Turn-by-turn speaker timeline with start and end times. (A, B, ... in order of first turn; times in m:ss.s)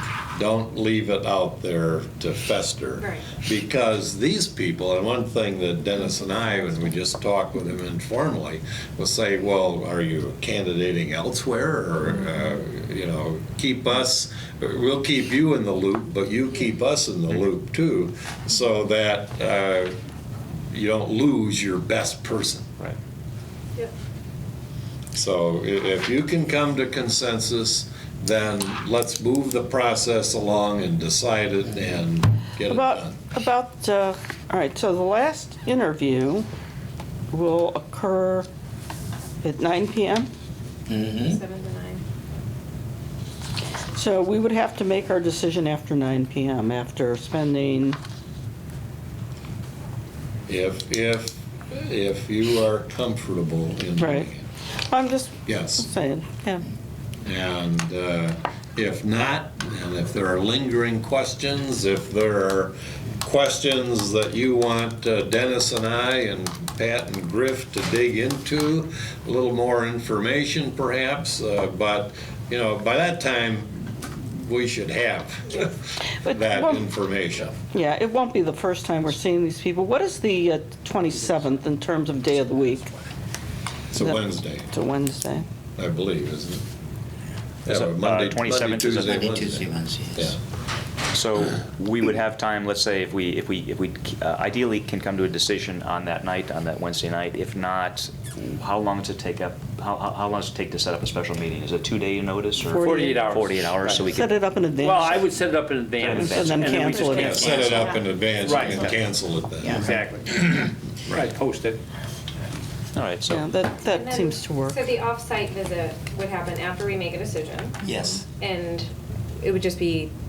0:00.3-0:19.9 A
0:03.0-0:03.3 B
0:20.7-0:22.8 A
0:25.1-0:33.2 A
0:32.6-0:36.5 C
0:37.3-0:38.5 C
0:39.4-0:40.3 C
0:40.9-0:41.4 D
0:41.2-0:42.0 B
0:44.0-0:48.0 C
0:50.5-0:54.5 A
0:54.0-0:54.3 C
0:54.9-0:56.6 C
0:55.5-0:55.9 A
0:57.2-1:17.6 A
1:16.2-1:16.9 C
1:17.7-1:22.9 C
1:23.9-1:24.7 A
1:24.0-1:25.4 C
1:25.8-1:26.6 A
1:27.7-1:30.4 A
1:27.7-1:29.3 E
1:29.0-1:30.4 D
1:31.1-1:44.4 E
1:42.6-1:43.3 C
1:42.8-1:44.1 F
1:44.0-1:45.3 C
1:44.8-1:49.0 F
1:46.0-1:47.6 E
1:46.0-1:47.5 C
1:47.1-1:49.9 A
1:49.6-1:50.0 D
1:49.7-1:51.8 F
1:53.0-1:53.4 E
1:53.3-1:54.8 C
1:53.8-1:57.8 B
1:57.8-1:58.3 D
1:58.4-2:00.1 B